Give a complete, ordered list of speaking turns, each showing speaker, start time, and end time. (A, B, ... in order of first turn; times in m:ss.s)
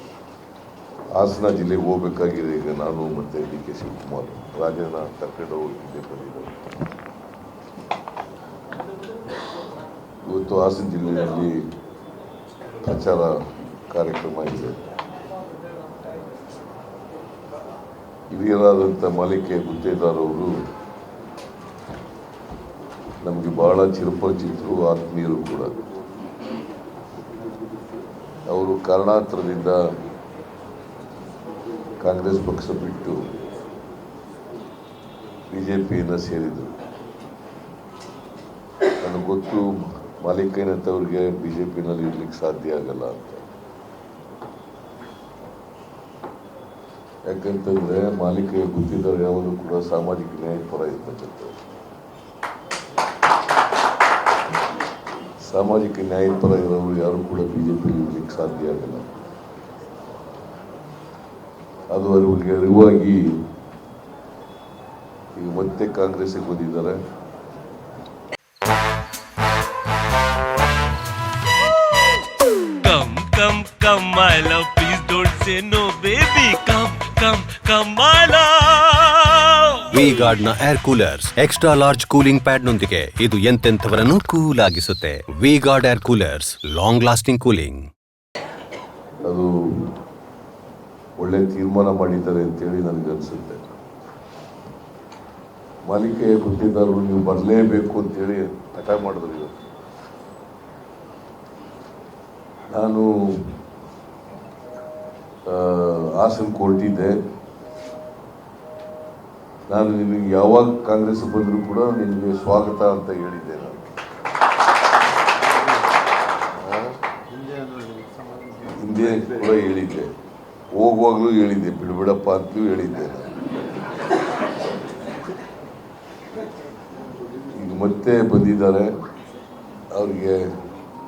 0:01.2-0:06.5 A
0:10.2-0:11.6 A
0:12.8-0:13.4 A
0:13.9-0:14.8 A
0:18.3-0:20.5 A
0:23.2-0:25.7 A
0:28.5-0:29.8 A
0:32.0-0:33.3 A
0:35.5-0:36.7 A
0:39.0-0:43.4 A
0:47.2-0:51.5 A
0:55.4-0:59.0 A
1:01.9-1:03.2 A
1:05.3-1:07.0 A
1:12.8-1:20.0 B
1:19.9-1:27.9 C
1:29.2-1:29.5 A
1:31.2-1:33.6 A
1:35.9-1:39.5 A
1:42.7-1:43.1 A
1:45.5-1:47.2 A
1:49.7-1:53.8 A
1:56.6-1:57.0 A
1:57.3-1:58.6 B
1:58.7-2:00.1 A
2:00.7-2:03.4 A
2:07.5-2:08.9 A
2:09.9-2:10.4 A